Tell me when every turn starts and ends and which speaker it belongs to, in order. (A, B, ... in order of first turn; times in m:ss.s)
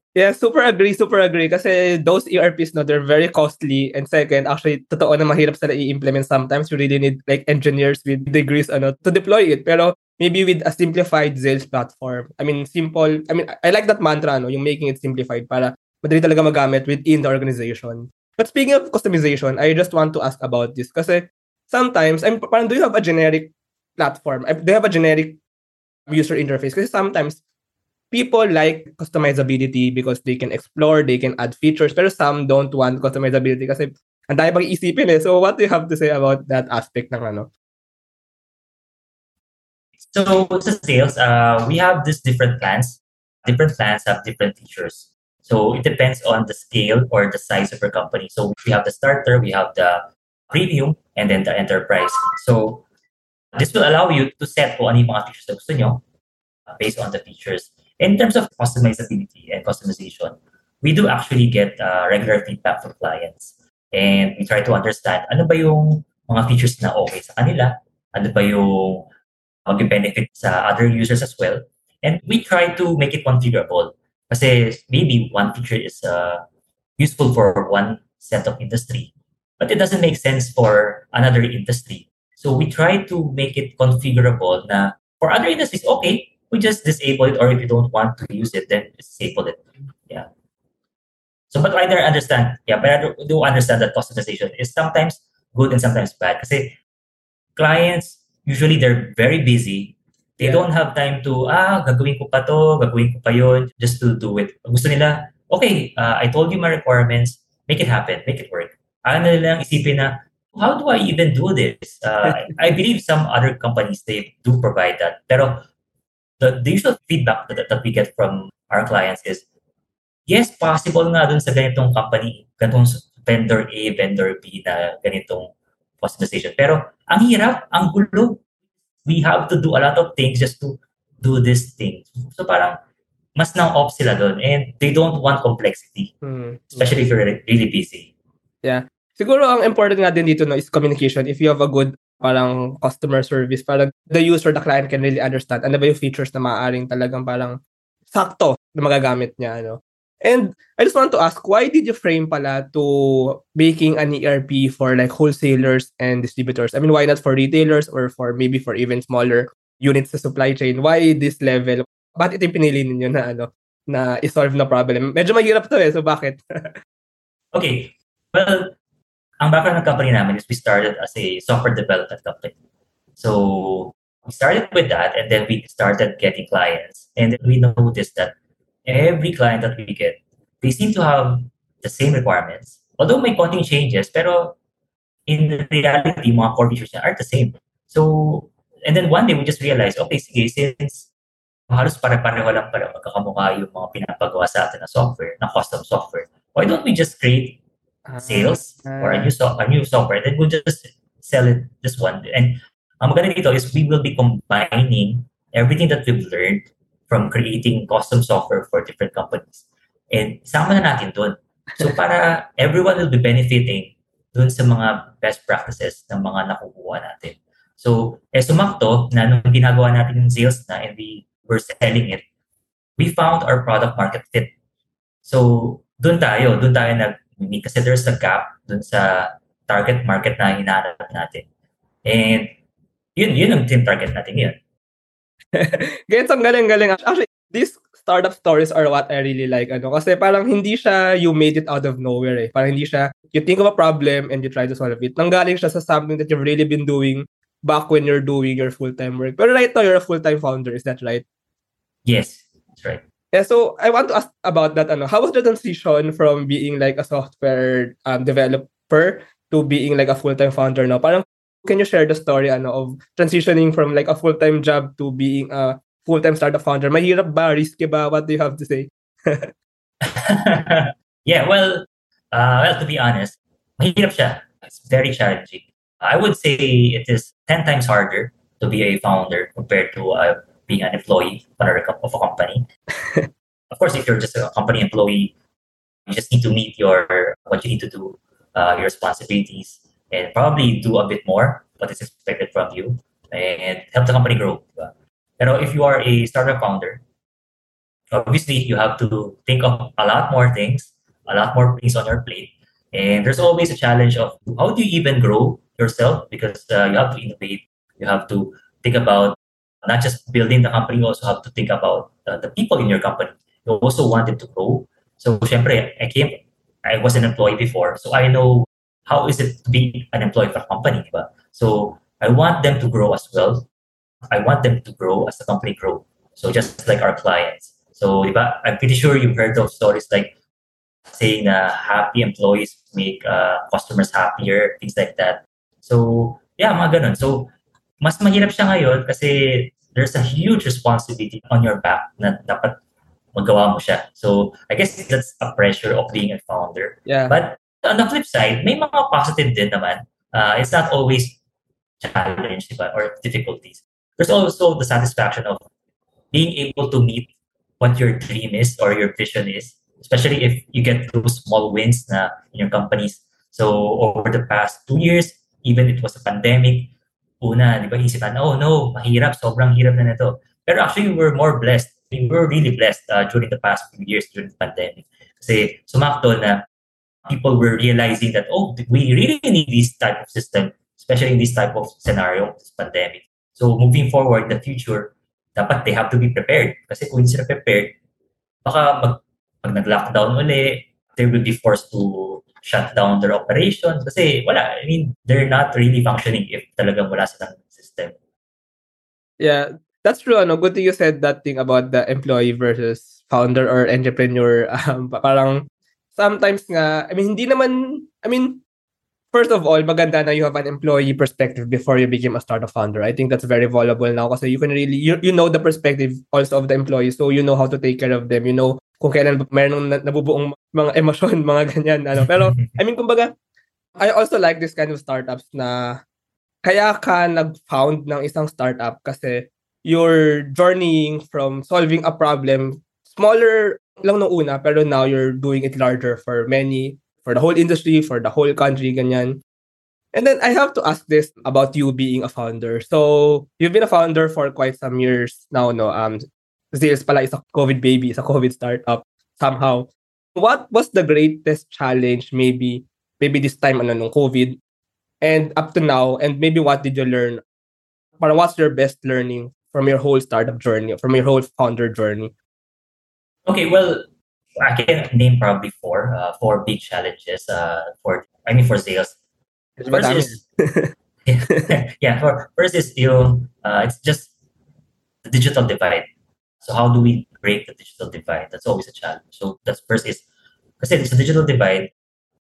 0:00.2-0:25.4 A
0:26.1-0:27.4 A
0:28.1-0:37.5 A
0:40.0-0:52.8 B
0:53.5-0:56.0 B
0:56.7-1:09.1 B
1:09.6-1:16.4 B
1:17.0-1:30.3 B
1:31.5-1:36.8 B
1:37.6-1:55.6 B
1:40.4-1:40.6 A
1:56.4-1:59.4 B
2:00.3-2:08.4 B
2:09.0-2:12.8 B
2:13.4-2:16.1 B
2:16.2-2:16.9 A
2:16.7-2:18.1 B
2:18.6-2:27.6 A
2:28.1-2:46.7 A
2:47.5-2:48.7 B
2:49.4-2:52.5 B
2:53.2-3:04.6 B
3:05.3-3:11.1 B
3:11.7-3:17.6 B
3:18.1-3:19.3 A
3:18.2-3:42.2 B
3:43.0-3:44.5 B
3:45.2-3:51.4 B
3:52.0-3:52.5 B
3:53.2-3:54.6 B
3:55.5-4:11.2 A
4:12.0-4:13.0 B
4:13.3-4:29.5 A
4:30.0-4:42.6 B
4:43.7-4:45.3 B
4:46.1-4:57.0 B
4:58.1-5:23.7 B
5:24.3-5:30.3 B
5:31.1-5:42.8 B
5:43.3-5:51.4 B
5:47.0-5:47.4 A
5:52.0-5:55.6 B
5:56.3-6:16.6 B
6:17.3-6:28.0 B
6:28.6-6:38.1 B
6:39.4-6:48.6 A
6:49.3-7:03.3 A
7:04.0-7:06.0 A
7:06.6-7:19.4 A
7:20.1-7:34.6 A
7:35.2-7:37.4 A
7:38.2-7:42.3 A
7:43.4-7:44.0 B
7:44.6-7:49.2 B
7:49.8-7:50.9 A
7:49.8-7:50.4 B
7:51.2-7:54.3 B
7:55.2-7:56.1 B
7:56.6-8:00.2 B
8:00.8-8:01.9 B